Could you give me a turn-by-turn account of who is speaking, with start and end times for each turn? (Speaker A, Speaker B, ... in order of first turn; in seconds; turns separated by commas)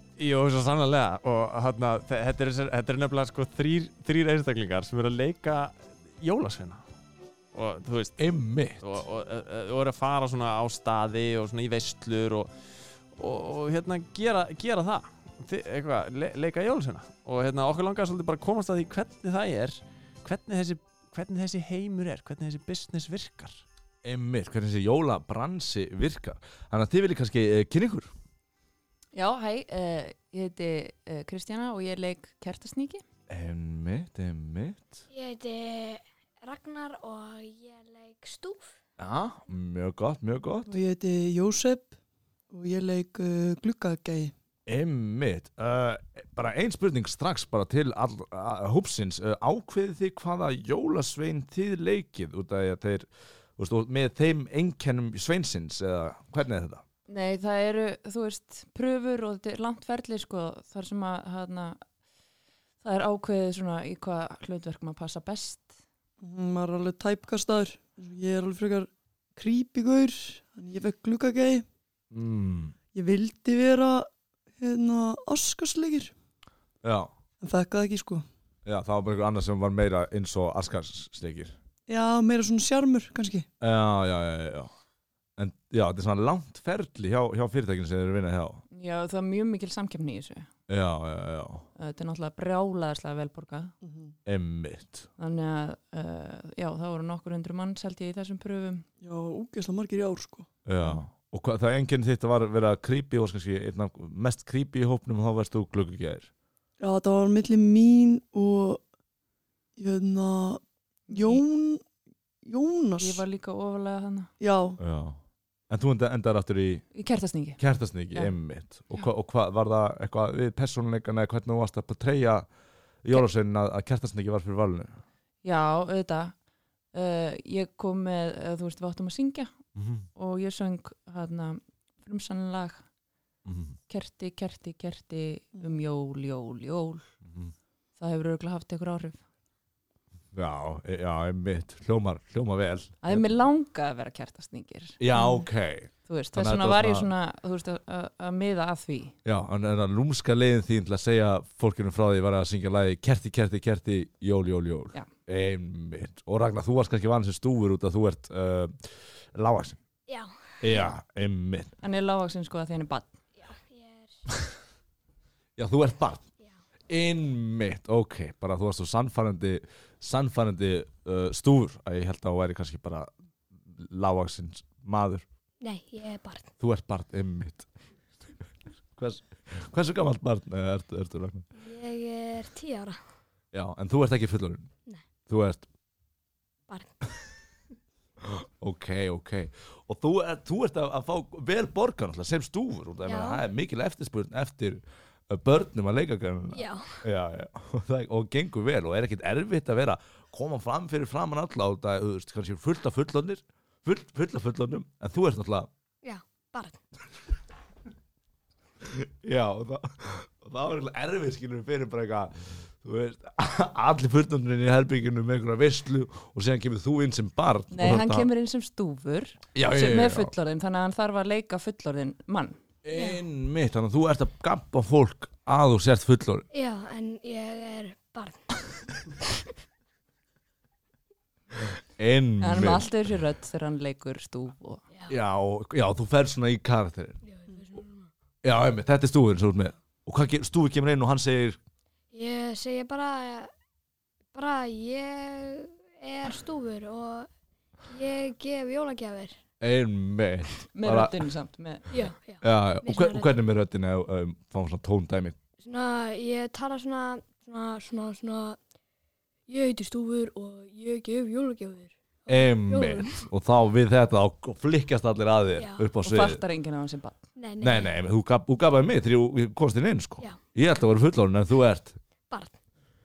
Speaker A: 0.2-6.8, Speaker A: 7.5-12.5, Speaker B: 8.2-9.0, Speaker A: 13.2-23.6, Speaker B: 24.0-28.1, Speaker C: 29.1-33.0, Speaker B: 33.3-35.0, Speaker D: 35.1-38.7, Speaker B: 39.0-40.7, Speaker E: 40.7-41.9, Speaker E: 42.5-44.3, Speaker B: 44.6-56.8, Speaker C: 57.1-61.8, Speaker C: 62.8-65.8, Speaker E: 66.2-71.6, Speaker B: 72.1-72.7, Speaker E: 72.9-74.1, Speaker E: 74.6-76.1, Speaker B: 76.8-77.1, Speaker E: 77.4-78.2, Speaker B: 78.7-81.5, Speaker E: 81.9-83.5, Speaker B: 83.6-84.7, Speaker B: 85.4-88.6, Speaker C: 88.7-90.5, Speaker B: 90.7-91.7, Speaker C: 91.8-93.7, Speaker E: 93.8-94.2, Speaker B: 94.2-95.1, Speaker C: 95.2-98.8, Speaker E: 99.0-101.0, Speaker B: 100.6-106.3, Speaker E: 106.8-108.8, Speaker E: 109.8-111.8, Speaker C: 111.1-111.4, Speaker E: 112.4-113.2, Speaker C: 113.0-114.3, Speaker E: 114.4-114.8, Speaker B: 114.8-115.2, Speaker B: 115.7-116.8, Speaker C: 116.9-117.6, Speaker B: 117.6-122.5, Speaker B: 123.0-125.0, Speaker C: 125.4-126.3, Speaker C: 126.9-129.5, Speaker B: 129.7-130.1, Speaker C: 130.1-132.8, Speaker B: 133.4-133.8, Speaker C: 133.9-137.0, Speaker B: 137.2-137.5, Speaker C: 138.0-139.2, Speaker B: 140.3-143.3, Speaker C: 143.0-145.0, Speaker B: 145.0-147.1, Speaker C: 146.0-149.1, Speaker B: 149.2-159.8, Speaker D: 160.1-160.9, Speaker B: 160.6-161.7, Speaker C: 161.8-163.2, Speaker D: 163.3-164.2, Speaker B: 165.6-166.2, Speaker B: 166.9-175.2, Speaker D: 175.6-176.5, Speaker B: 176.6-177.7, Speaker B: 178.9-181.5, Speaker D: 181.5-183.0, Speaker B: 183.5-184.7, Speaker B: 185.3-185.7, Speaker D: 186.7-187.0, Speaker B: 188.2-205.7, Speaker D: 193.0-193.4, Speaker D: 196.5-197.0, Speaker D: 206.0-206.8, Speaker B: 208.8-218.3, Speaker C: 217.7-222.6, Speaker B: 219.5-220.3, Speaker B: 222.8-226.4, Speaker D: 222.9-223.2, Speaker D: 226.5-229.5, Speaker B: 232.0-232.9, Speaker C: 232.4-234.8, Speaker B: 235.1-237.2, Speaker D: 237.2-238.1, Speaker B: 238.4-241.6, Speaker D: 242.1-243.5, Speaker D: 244.3-247.3, Speaker D: 247.9-249.4, Speaker B: 249.6-251.2, Speaker C: 250.7-251.9, Speaker D: 251.9-253.3, Speaker B: 252.4-255.3, Speaker D: 255.6-258.6, Speaker D: 259.5-263.2, Speaker B: 262.3-266.4, Speaker D: 265.5-265.9, Speaker C: 266.0-267.2, Speaker D: 267.4-267.9, Speaker B: 267.6-272.0, Speaker D: 272.3-272.6